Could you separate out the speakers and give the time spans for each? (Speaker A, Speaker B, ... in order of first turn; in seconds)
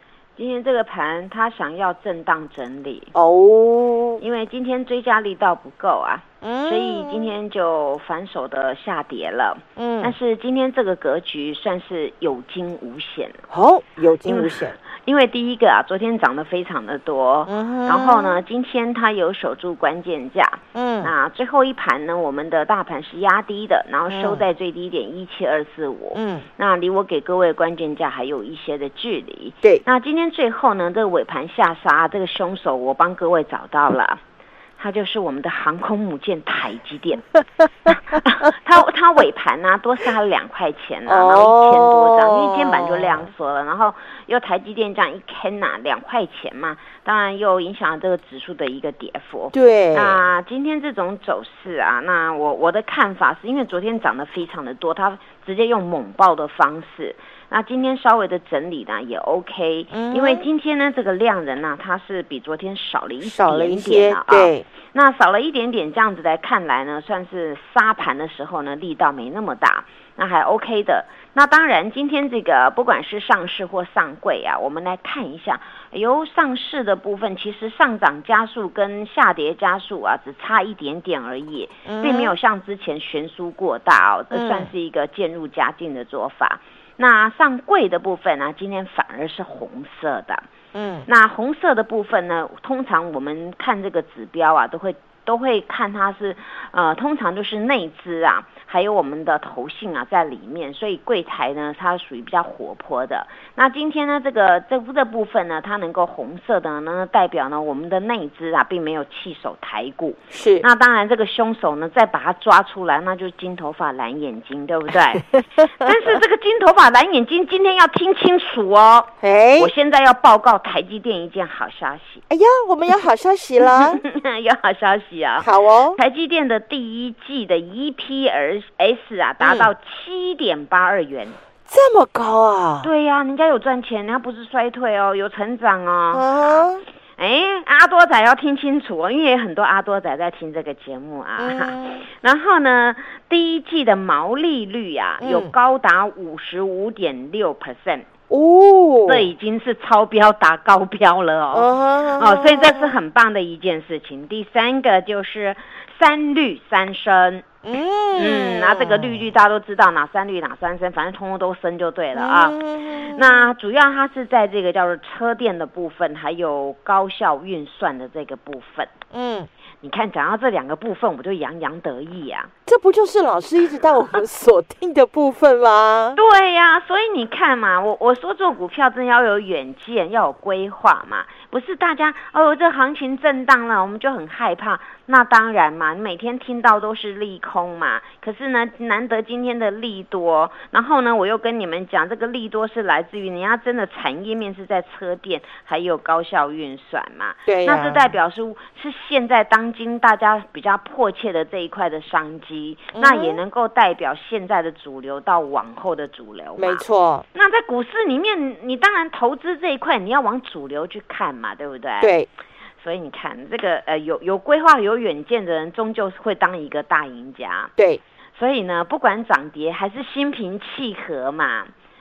Speaker A: 0.4-3.1, 4.2-13.5, 14.2-34.2, 34.8-37.3, 37.9-90.5, 91.1-122.2, 123.6-131.4, 132.8-136.7, 137.2-148.1, 149.1-157.5, 158.2-168.9, 169.8-172.5, 176.2-212.1, 212.8-217.7, 218.4-221.7
Speaker B: 3.1-4.2, 6.4-7.3, 9.8-10.2, 13.5-14.8, 17.5-18.4, 20.7-21.1, 24.1-24.4, 26.1-26.5, 41.1-43.3, 49.5-50.2, 59.9-60.5, 63.2-64.7, 81.8-82.3, 84.3-84.7, 90.7-91.1, 110.3-110.7, 119.2-119.7, 122.3-124.0, 125.4-126.0, 129.4-129.7, 131.7-132.9, 136.1-136.8, 141.4-142.0, 145.2-145.5, 148.3-149.3, 151.5-153.0, 157.7-159.3, 162.2-163.5, 169.1-169.5, 172.7-176.2, 197.5-198.1, 202.9-203.4, 206.6-207.3, 212.0-212.3